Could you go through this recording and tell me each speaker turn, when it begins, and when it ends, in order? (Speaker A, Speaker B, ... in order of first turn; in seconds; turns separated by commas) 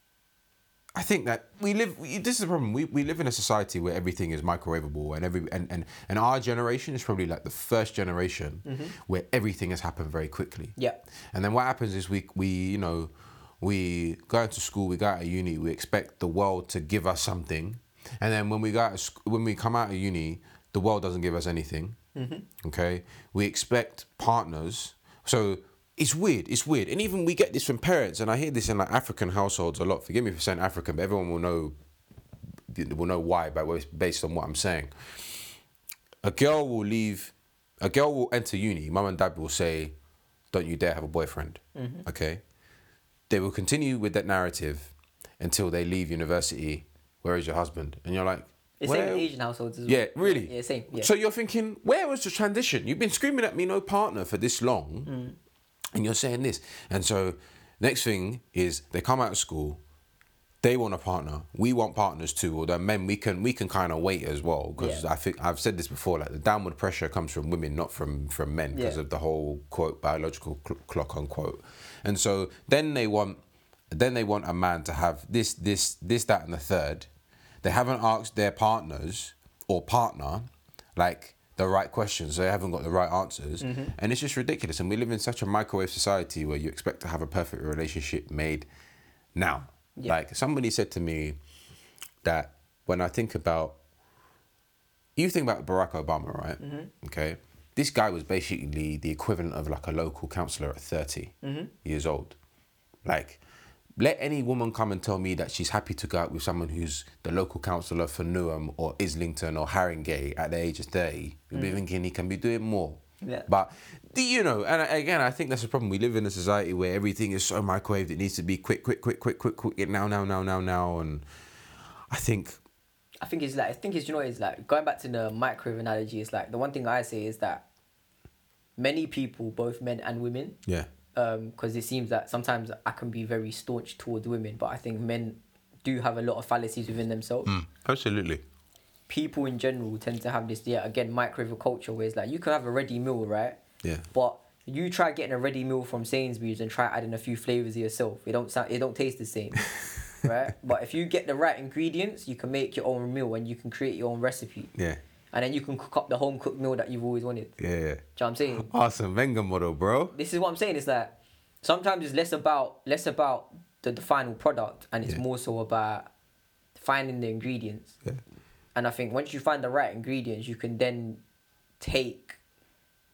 Speaker A: 0.9-10.8, Speaker B: 8.7-8.9, Speaker A: 11.3-22.0, Speaker B: 22.1-22.5, Speaker A: 22.6-31.7, Speaker A: 32.7-35.5, Speaker A: 36.2-39.9, Speaker A: 40.5-42.4, Speaker B: 41.8-42.1, Speaker A: 43.3-49.3, Speaker B: 48.8-51.1, Speaker A: 49.9-55.1, Speaker B: 55.1-55.4, Speaker A: 55.9-59.8, Speaker A: 60.6-73.4, Speaker B: 64.8-65.0, Speaker B: 68.7-69.0, Speaker A: 73.9-77.1, Speaker A: 77.6-88.7, Speaker B: 83.6-83.9, Speaker A: 89.3-91.4, Speaker A: 92.2-93.8, Speaker A: 95.2-102.4, Speaker B: 96.6-96.9, Speaker B: 101.4-101.7, Speaker A: 103.0-103.4, Speaker A: 104.0-121.2, Speaker B: 111.5-111.8, Speaker B: 113.2-113.5, Speaker A: 122.1-122.6, Speaker B: 123.2-127.6, Speaker B: 128.8-130.6, Speaker B: 131.1-137.5, Speaker A: 137.5-138.4, Speaker B: 139.1-143.6, Speaker B: 144.1-149.7, Speaker A: 149.8-150.0, Speaker B: 150.2-154.7, Speaker A: 154.8-155.0, Speaker B: 155.3-157.6, Speaker A: 157.6-160.2, Speaker B: 158.2-158.7, Speaker B: 160.1-166.1, Speaker B: 166.8-167.9, Speaker B: 168.8-171.2, Speaker B: 171.8-172.4